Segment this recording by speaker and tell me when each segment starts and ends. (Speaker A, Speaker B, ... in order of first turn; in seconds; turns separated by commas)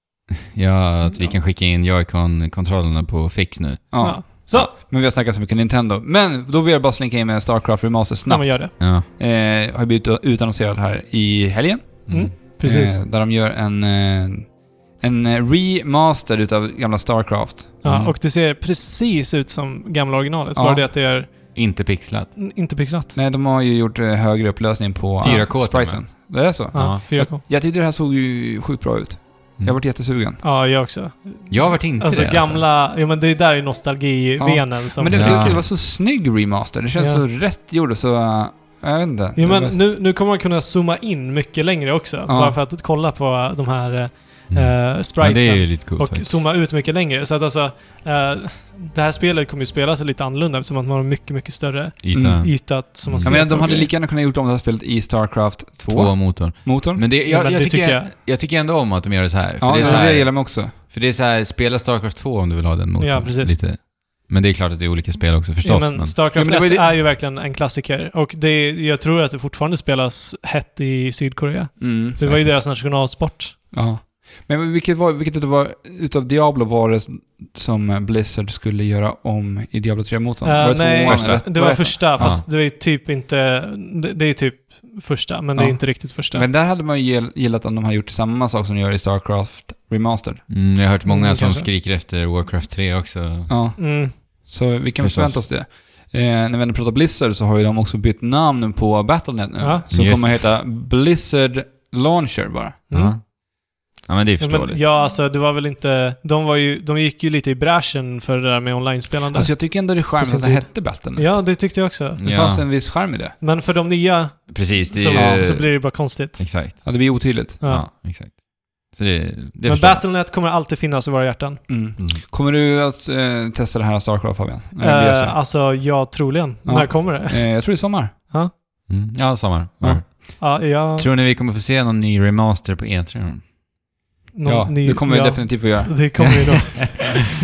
Speaker A: 0.5-4.6, Speaker B: 1.1-1.3, Speaker C: 3.9-17.8, Speaker B: 4.0-4.7, Speaker B: 8.3-8.7, Speaker A: 8.8-9.1, Speaker A: 12.1-12.3, Speaker B: 12.1-13.0, Speaker B: 17.8-23.1, Speaker A: 17.8-18.1, Speaker C: 20.5-20.9, Speaker A: 21.5-22.3, Speaker C: 23.1-30.4, Speaker B: 25.2-26.2, Speaker A: 25.2-27.0, Speaker B: 26.7-27.4, Speaker B: 30.4-35.5, Speaker A: 31.5-32.6, Speaker C: 34.4-39.8, Speaker A: 35.1-35.6, Speaker B: 37.0-37.2, Speaker B: 39.4-53.9, Speaker C: 42.3-42.6, Speaker A: 44.5-46.4, Speaker A: 52.0-53.4, Speaker C: 52.1-52.5, Speaker C: 53.1-57.0, Speaker A: 55.9-66.8, Speaker B: 57.2-58.1, Speaker C: 59.6-60.7, Speaker B: 59.8-60.1, Speaker B: 63.0-63.8, Speaker B: 65.6-73.6, Speaker C: 66.3-66.8, Speaker C: 71.8-72.4, Speaker A: 72.2-72.5, Speaker C: 73.7-82.4, Speaker B: 80.4-86.5, Speaker A: 81.0-82.4, Speaker C: 85.5-90.4, Speaker A: 90.5-93.5, Speaker B: 91.0-91.7, Speaker C: 93.5-102.9, Speaker B: 93.8-94.2, Speaker A: 95.0-95.4, Speaker B: 99.6-99.8, Speaker A: 99.9-100.4, Speaker B: 102.9-103.2, Speaker A: 102.9-103.3, Speaker A: 104.0-104.8, Speaker B: 104.4-112.2, Speaker C: 109.3-111.4, Speaker A: 112.2-112.7, Speaker C: 112.2-113.4, Speaker B: 113.4-116.8, Speaker A: 114.5-120.0, Speaker C: 115.1-115.4, Speaker C: 116.8-117.6, Speaker B: 117.6-117.9, Speaker B: 119.7-121.6, Speaker C: 121.7-125.4, Speaker A: 122.0-122.2, Speaker B: 124.8-128.5, Speaker C: 126.6-128.1, Speaker A: 128.9-133.5, Speaker B: 130.4-131.1, Speaker B: 134.3-137.2, Speaker C: 134.4-136.4, Speaker A: 136.8-137.1